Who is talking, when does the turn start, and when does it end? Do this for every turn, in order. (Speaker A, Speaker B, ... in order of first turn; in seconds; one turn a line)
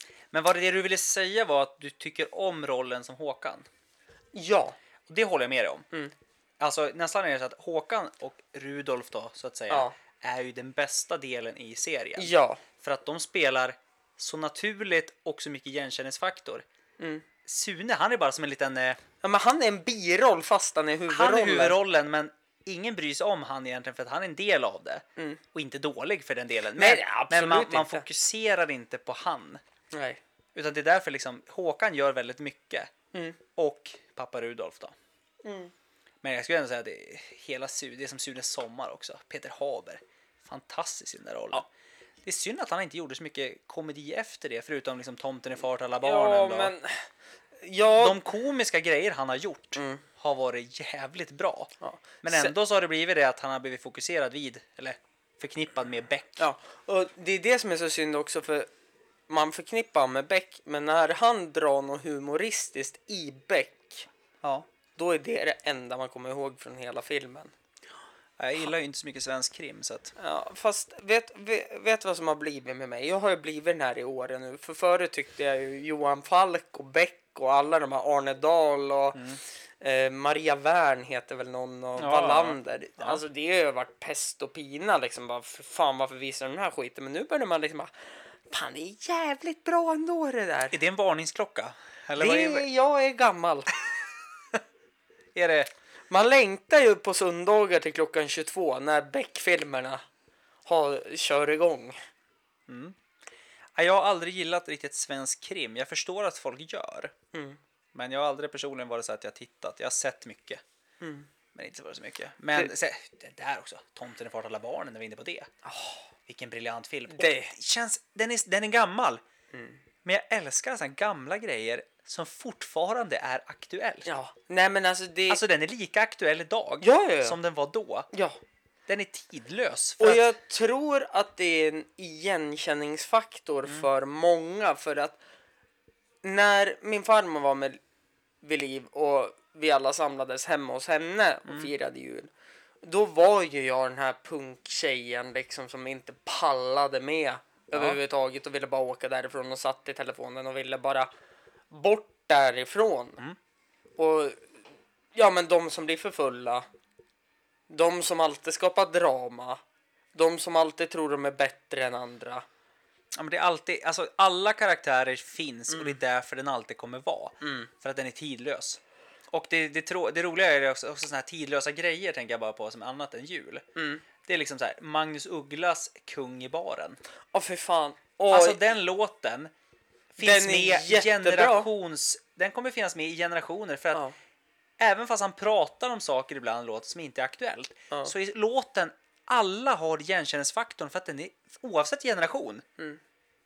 Speaker A: 0.3-3.7
Speaker B: 4.3-4.8
Speaker A: 5.1-5.8
Speaker A: 6.6-16.6
Speaker B: 12.2-12.6
Speaker B: 17.0-17.2
Speaker A: 17.4-19.0
Speaker B: 19.2-21.8
Speaker A: 21.1-29.6
Speaker B: 26.8-28.1
Speaker B: 29.9-30.2
Speaker A: 30.6-32.9
Speaker B: 33.1-33.4
Speaker A: 33.6-34.9
Speaker B: 35.4-35.7
Speaker A: 36.2-41.7
Speaker A: 42.2-46.7
Speaker B: 46.0-47.0
Speaker B: 47.6-48.2
Speaker A: 48.0-56.4
Speaker B: 49.8-50.0
Speaker B: 51.8-52.5
Speaker B: 56.4-58.7
Speaker B: 59.3-64.1
Speaker B: 65.0-67.5
Speaker A: 68.4-70.1
Speaker B: 70.2-79.2
Speaker A: 79.2-79.4
Speaker B: 79.8-87.9
Speaker A: 82.0-83.2
Speaker B: 88.5-90.8
Speaker A: 90.7-92.7
Speaker B: 92.2-93.7
Speaker A: 95.3-95.7
Speaker B: 96.1-100.0
Speaker B: 100.7-102.0
Speaker A: 102.7-103.0
Speaker A: 103.8-107.1
Speaker B: 107.3-107.6
Speaker A: 107.9-110.6
Speaker B: 111.0-111.3
Speaker A: 111.5-115.5
Speaker B: 115.7-116.1
Speaker A: 116.3-119.2
Speaker B: 117.1-117.5
Speaker B: 119.5-119.8
Speaker A: 120.0-124.1
Speaker B: 124.0-125.4
Speaker A: 125.3-128.1
Speaker B: 126.8-127.4
Speaker B: 128.1-128.4
Speaker A: 128.9-130.3
Speaker B: 130.0-135.2
Speaker B: 136.2-137.8
Speaker B: 138.4-142.3
Speaker B: 142.8-151.1
Speaker A: 147.7-148.0
Speaker B: 151.7-153.2
Speaker B: 154.0-154.4
Speaker B: 155.1-156.7
Speaker B: 157.7-159.6
Speaker B: 160.2-162.4
Speaker A: 163.1-168.8
Speaker B: 167.4-167.7
Speaker A: 169.3-173.7
Speaker B: 173.8-174.0
Speaker A: 174.2-177.0
Speaker B: 177.3-178.6
Speaker A: 178.3-179.5
Speaker A: 180.1-184.1
Speaker B: 180.2-181.7
Speaker A: 184.8-192.6